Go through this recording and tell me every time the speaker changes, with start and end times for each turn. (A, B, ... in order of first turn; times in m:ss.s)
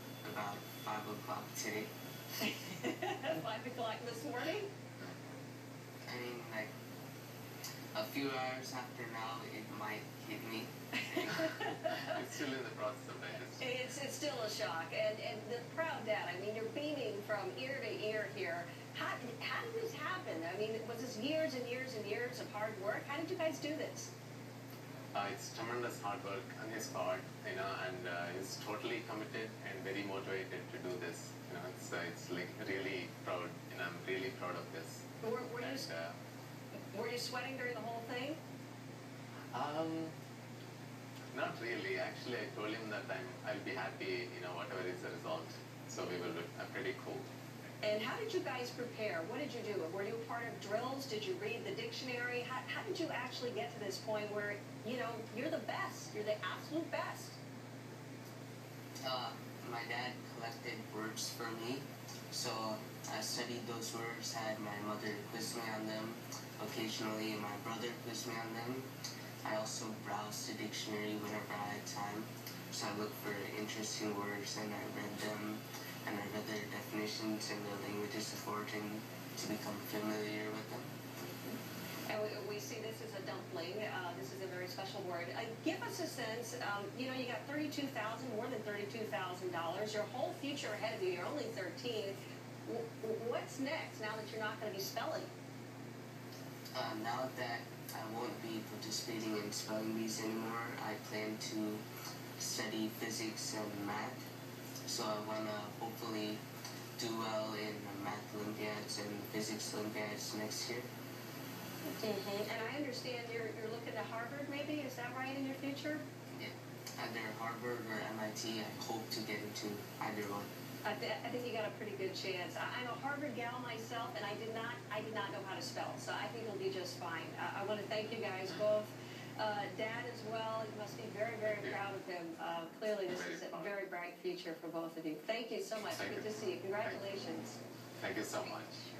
0:00.2-0:01.9 A
0:02.4-0:04.7 B
0:06.1-0:06.7 A
0:07.9-0:11.5 A
0:11.1-0:12.2 B
0:11.8-0:13.6 C
0:13.6-0:24.1 B
0:25.1-0:35.0 C
0:35.2-0:35.9 B
0:35.6-0:36.1 C
0:36.9-0:38.4 B
0:39.5-0:40.1 C
0:41.3-0:47.3 C
0:47.8-0:57.4 B
0:59.0-1:08.9 A
1:09.4-1:20.9 A
1:22.1-1:35.3 B
1:36.7-1:41.8 A
1:42.4-1:44.2 A
1:44.8-1:46.4 A
1:47.0-1:50.9 A
1:51.9-1:56.0 B
1:56.3-2:00.5 A
2:00.8-2:17.6 B
2:11.4-2:11.8 C
2:13.1-2:13.7 C
2:15.9-2:16.2 C
2:18.0-2:18.8 C